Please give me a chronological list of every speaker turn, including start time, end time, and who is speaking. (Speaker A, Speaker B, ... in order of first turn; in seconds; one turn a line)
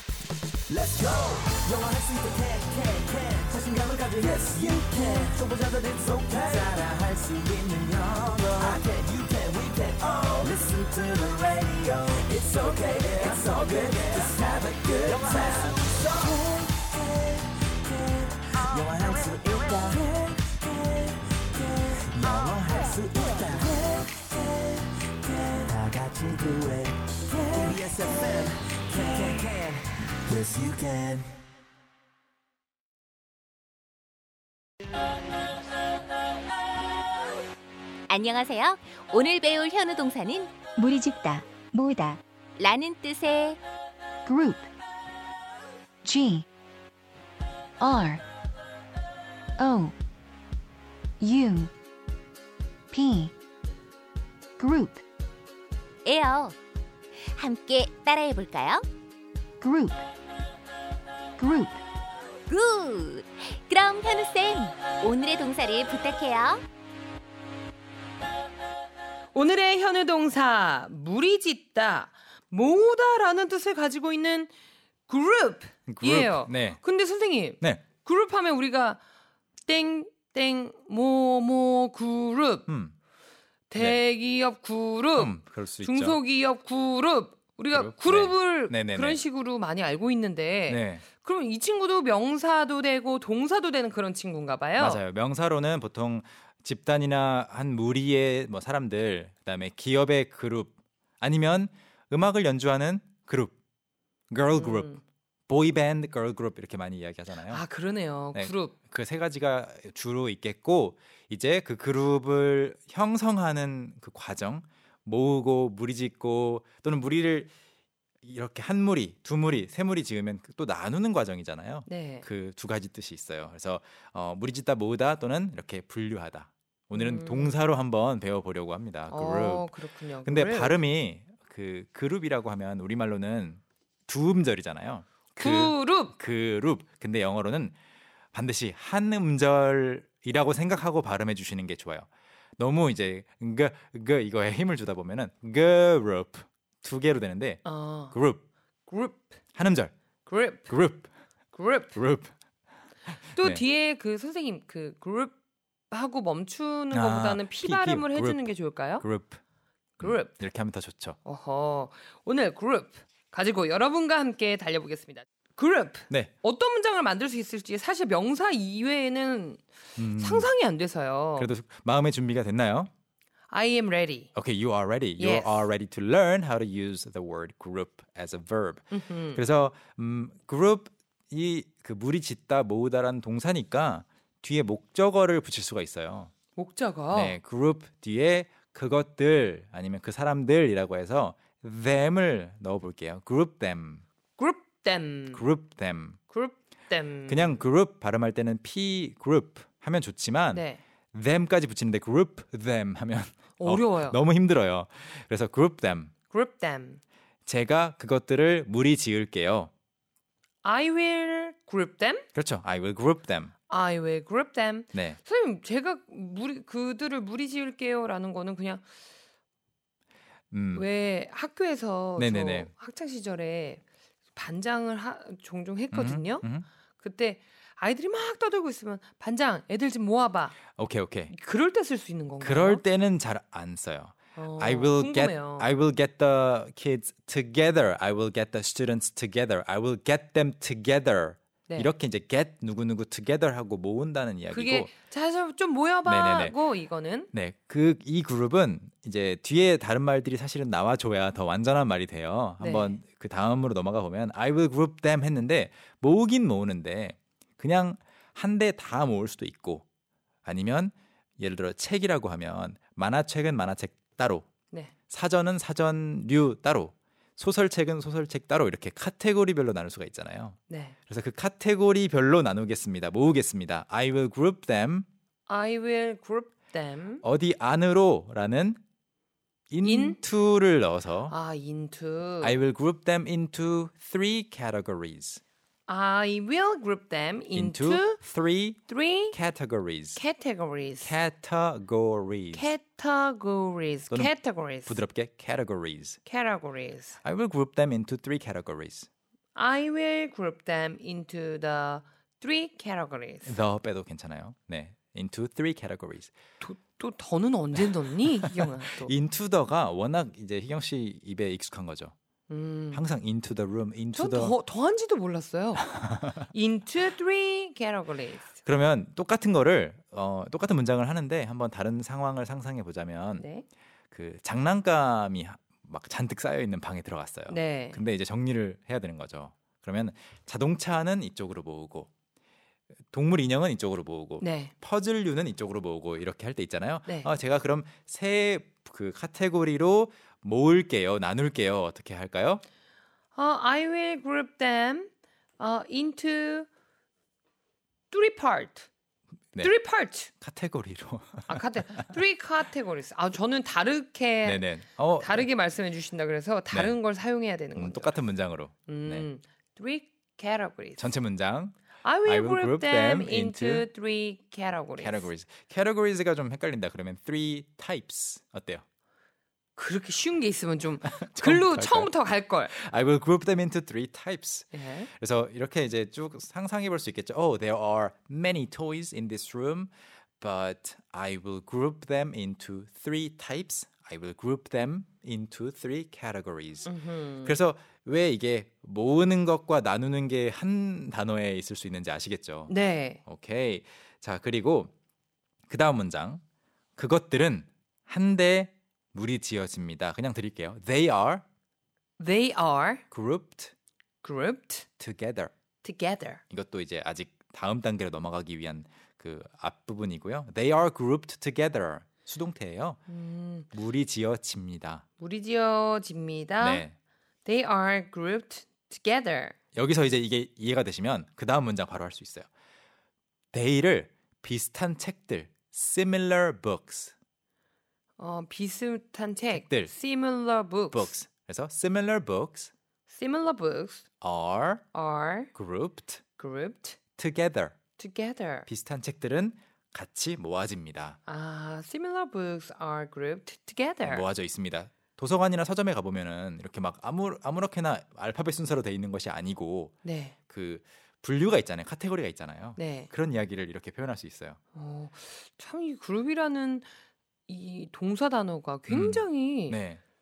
Speaker A: 0.7-16.7
Speaker A: 17.9-24.3
Speaker A: 25.2-31.3
Speaker B: 38.1-40.5
Speaker C: 40.8-42.2
Speaker B: 42.6-43.6
Speaker C: 44.2-44.7
Speaker C: 46.0-46.5
Speaker C: 47.9-48.2
Speaker C: 49.6-49.9
Speaker C: 51.2-51.7
Speaker C: 52.9-53.3
Speaker C: 54.6-55.0
Speaker B: 56.0-56.5
Speaker B: 57.3-58.8
Speaker C: 59.6-60.0
Speaker C: 61.4-61.8
Speaker B: 62.5-66.6
Speaker D: 69.3-74.5
Speaker D: 75.1-79.0
Speaker E: 75.9-76.8
Speaker D: 79.7-82.7
Speaker E: 82.7-82.9
Speaker D: 83.7-95.0
Speaker E: 83.8-84.0
Speaker E: 85.2-86.2
Speaker E: 87.7-89.2
Speaker E: 90.7-91.0
Speaker E: 94.8-103.5
Speaker E: 104.3-105.0
Speaker D: 104.5-105.0
Speaker E: 105.5-107.6
Speaker D: 107.5-108.8
Speaker E: 108.3-117.5
Speaker E: 118.2-137.7
Speaker D: 121.9-122.2
Speaker D: 126.9-127.5
Speaker D: 129.1-130.8
Speaker D: 135.4-136.1
Speaker E: 138.3-142.1
Speaker E: 142.6-148.4
Speaker D: 147.6-148.2
Speaker D: 148.9-149.3
Speaker E: 149.5-149.9
Speaker D: 150.2-150.8
Speaker E: 150.7-151.1
Speaker D: 151.5-152.0
Speaker E: 151.9-152.3
Speaker E: 153.3-153.6
Speaker D: 153.3-155.3
Speaker D: 155.9-159.0
Speaker E: 156.9-159.4
Speaker E: 160.0-161.2
Speaker D: 160.0-160.3
Speaker D: 161.2-169.6
Speaker E: 170.0-170.5
Speaker D: 170.1-171.5
Speaker E: 171.4-172.9
Speaker D: 173.5-174.3
Speaker E: 174.3-186.3
Speaker D: 175.2-175.7
Speaker D: 178.9-179.4
Speaker D: 186.6-187.4
Speaker E: 187.1-194.0
Speaker D: 194.4-195.4
Speaker E: 195.3-196.2
Speaker D: 196.3-197.6
Speaker E: 197.3-206.1
Speaker D: 200.5-200.8
Speaker D: 203.6-204.2
Speaker D: 206.3-207.0
Speaker E: 207.4-209.7
Speaker D: 210.6-212.2
Speaker E: 212.3-213.5
Speaker D: 213.7-218.8
Speaker E: 214.9-215.2
Speaker E: 220.5-220.8
Speaker D: 220.7-223.8
Speaker E: 222.2-222.7
Speaker D: 224.3-226.4
Speaker E: 225.9-226.7
Speaker D: 227.0-230.6
Speaker E: 230.8-231.3
Speaker D: 231.3-232.8
Speaker E: 232.4-244.9
Speaker D: 234.3-235.7
Speaker D: 244.5-247.3
Speaker E: 246.1-246.6
Speaker E: 247.3-259.8
Speaker D: 252.6-253.0
Speaker E: 260.4-264.5
Speaker E: 265.1-270.6
Speaker D: 270.7-270.9
Speaker E: 271.1-275.1
Speaker D: 275.5-277.2
Speaker E: 277.2-278.8
Speaker E: 279.7-281.3
Speaker D: 279.8-280.2
Speaker D: 281.3-282.6
Speaker E: 282.4-285.4
Speaker D: 285.9-288.2
Speaker E: 287.5-288.8
Speaker D: 288.9-289.4
Speaker E: 289.3-290.2
Speaker D: 290.1-291.1
Speaker E: 291.0-292.7
Speaker D: 292.5-295.0
Speaker E: 294.1-296.2
Speaker D: 296.2-297.2
Speaker E: 297.2-299.1
Speaker D: 299.5-303.6
Speaker E: 303.4-306.3
Speaker D: 306.6-309.1
Speaker E: 308.2-312.1
Speaker D: 312.5-313.0
Speaker E: 312.9-314.6
Speaker D: 314.1-318.5
Speaker E: 318.6-323.4
Speaker D: 323.4-323.6
Speaker E: 324.1-332.1
Speaker D: 327.5-328.0
Speaker E: 333.1-342.6
Speaker D: 334.4-334.7
Speaker D: 337.1-337.3
Speaker D: 343.3-346.7
Speaker D: 348.1-348.9
Speaker D: 349.6-350.3
Speaker E: 350.4-351.6
Speaker D: 351.5-354.7
Speaker E: 354.4-355.5
Speaker D: 355.2-358.2
Speaker E: 356.7-357.0
Speaker E: 357.7-359.3
Speaker D: 358.9-361.1
Speaker E: 361.0-363.9
Speaker D: 362.0-365.3
Speaker E: 365.0-368.8
Speaker D: 369.8-372.7
Speaker E: 371.0-372.1
Speaker E: 372.7-386.9
Speaker D: 374.7-375.1
Speaker D: 386.9-387.5
Speaker E: 387.4-394.9
Speaker D: 392.7-393.2
Speaker E: 395.7-396.4
Speaker E: 397.0-401.4
Speaker D: 402.2-403.0
Speaker E: 403.1-403.7
Speaker D: 404.2-404.9
Speaker E: 405.0-405.5
Speaker D: 405.8-406.4
Speaker E: 406.5-413.0
Speaker D: 413.1-413.7
Speaker E: 413.7-415.0
Speaker D: 415.2-416.9
Speaker E: 416.6-416.9
Speaker D: 417.4-419.6
Speaker E: 419.7-422.5
Speaker E: 423.5-427.1
Speaker D: 428.2-431.1
Speaker E: 429.5-429.9
Speaker E: 430.9-432.7
Speaker D: 433.1-434.0
Speaker E: 434.2-434.9
Speaker D: 434.9-435.5
Speaker E: 435.5-436.2
Speaker D: 436.4-437.0
Speaker E: 437.2-437.7
Speaker D: 438.0-438.7
Speaker E: 438.7-441.2
Speaker D: 441.2-444.2
Speaker E: 444.0-450.0
Speaker D: 450.0-450.4
Speaker E: 450.5-454.6
Speaker D: 452.8-453.1
Speaker D: 454.7-456.9
Speaker D: 457.5-459.8
Speaker E: 458.9-460.0